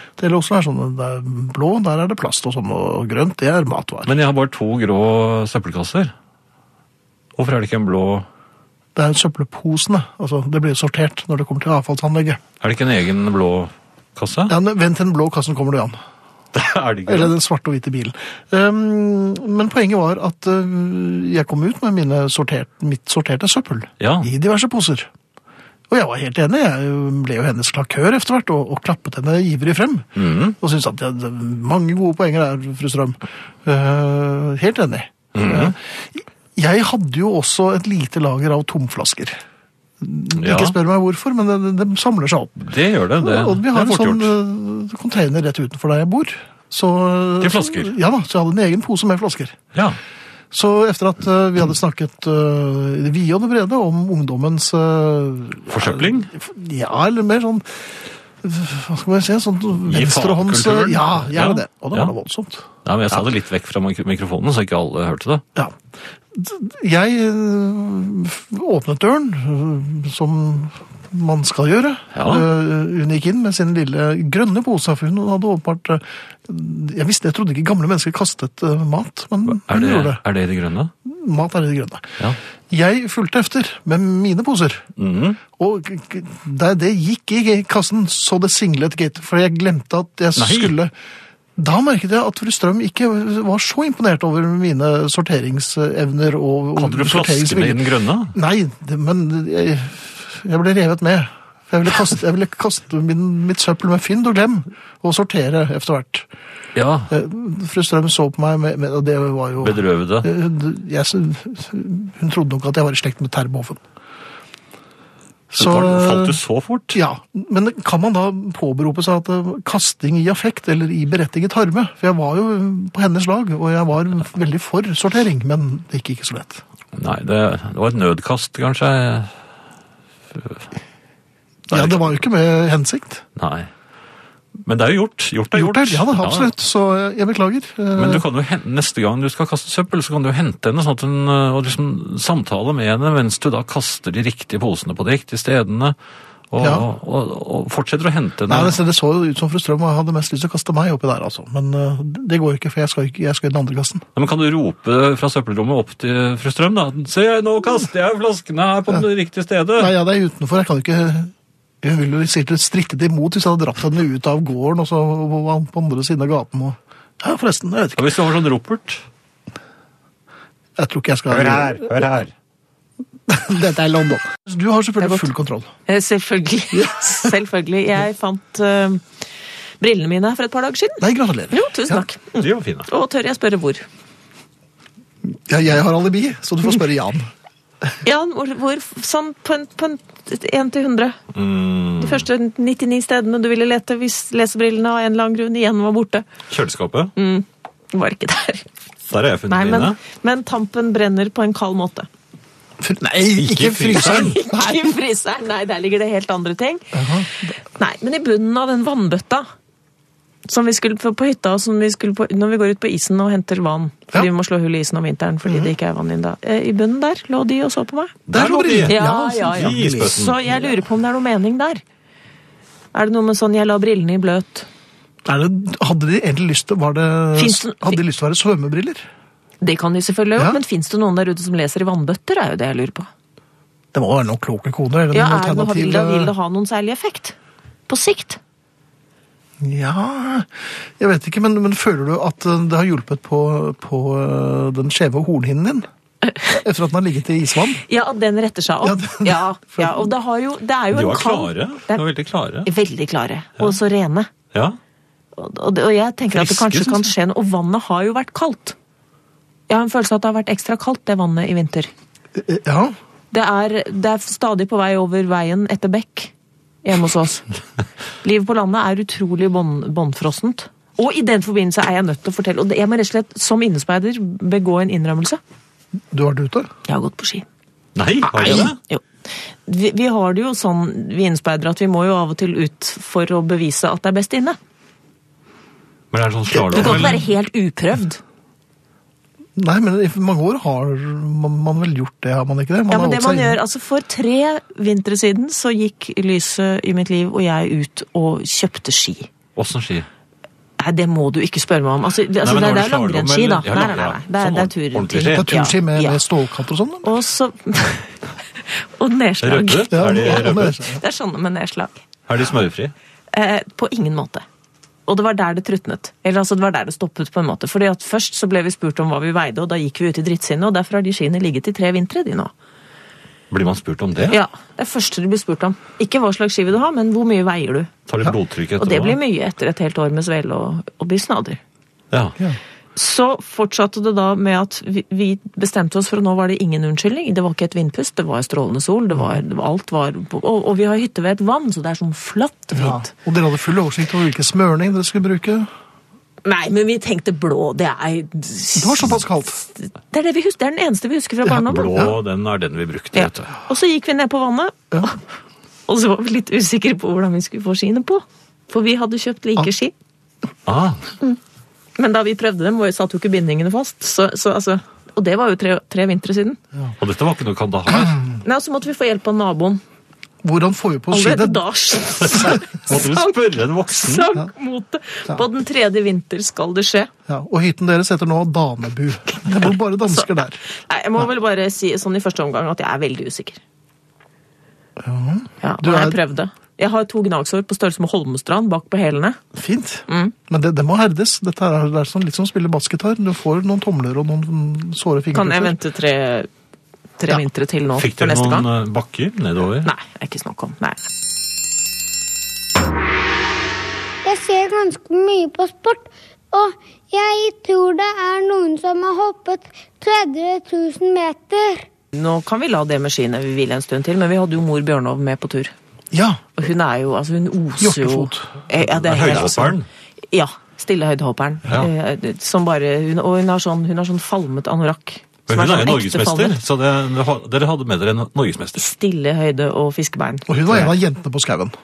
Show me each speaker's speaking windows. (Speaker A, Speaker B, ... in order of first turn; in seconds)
Speaker A: 0.2-4.2, 8.9-12.4, 14.5-16.0, 17.1-25.1, 25.9-39.4, 40.0-42.6, 43.2-49.6, 50.5-63.2, 66.3-80.2, 81.0-82.2, 82.7-84.9, 85.5-90.9, 91.6-106.3, 107.1-113.8, 115.5-116.4, 116.9-126.6, 131.7-133.2, 135.5-138.2, 146.6-146.9, 148.5-154.1, 159.8-168.1, 170.8-171.9, 173.3-175.7, 176.7-177.3, 181.0-182.0, 185.3-187.3, 202.8-204.4, 206.9-207.5, 218.3-220.2, 225.3-229.1, 233.9-236.3, 239.6-245.9, 246.5-247.8, 248.8-250.1, 262.4-263.0, 276.1-276.7, 286.5-287.2, 289.6-293.6, 305.3-307.1, 309.9-311.0, 342.7-345.7, 348.8-349.6, 370.4-371.6, 377.3-380.6, 385.0-386.2, 389.5-395.8, 416.1-416.4, 417.8-418.5, 430.5-431.7
Speaker B: 4.1-6.1, 7.4-8.3, 12.6-14.5, 16.5-17.3, 24.0-24.3, 30.2-30.6, 35.3-35.7, 40.4-40.8, 42.6-44.4, 47.4-47.9, 55.7-56.3, 59.9-62.1, 62.9-65.4, 72.1-72.5, 79.5-80.9, 85.0-85.4, 90.4-90.8, 96.8-98.3, 106.8-107.1, 109.6-110.3, 115.5-117.0, 126.9-129.3, 130.3-130.6, 131.7-132.2, 133.4-133.7, 134.7-136.5, 137.9-145.9, 146.5-148.8, 154.2-159.9, 168.0-169.0, 171.3-172.3, 182.4-182.9, 191.3-192.3, 196.5-197.1, 199.1-200.0, 203.3-204.4, 218.3-220.4, 250.9-252.7, 256.3-257.1, 277.9-278.8, 286.1-287.2, 299.6-300.1, 302.4-305.5, 309.4-310.8, 312.3-312.9, 323.5-324.4, 328.1-329.2, 332.1-332.4, 351.6-353.6, 360.7-361.0, 367.0-368.3, 372.3-374.3, 398.0-399.9, 418.9-419.9, 425.5-428.8
Speaker C: 175.0-175.3, 175.9-179.0, 179.8-183.8, 188.0-191.2, 192.0-196.3, 197.2-198.7, 199.5-202.1, 204.3-209.5, 210.5-218.2, 218.9-221.8, 222.9-224.7, 227.4-228.0, 229.6-233.1, 235.1-237.4, 237.9-238.4, 246.3-246.6, 247.8-252.0, 252.7-254.3, 255.4-258.8, 259.7-261.9, 263.3-266.3, 266.8-267.5, 268.2-275.4, 276.9-277.5, 278.3-279.1, 279.6-284.6, 286.8-288.2, 292.9-299.3, 300.8-306.2, 307.0-312.0, 313.3-314.4, 315.1-322.5, 324.3-327.9, 328.8-331.6, 333.0-343.1, 346.4-352.1, 353.1-355.2, 355.9-359.9, 362.0-366.6, 368.4-369.8, 371.1-373.4, 373.9-377.1, 380.1-383.6, 385.6-389.4, 390.1-390.3, 395.3-396.5, 397.2-398.7, 399.8-401.0, 412.1-415.7, 416.6-419.8, 420.3-426.6, 428.8-430.5
Speaker D: 404.2-411.9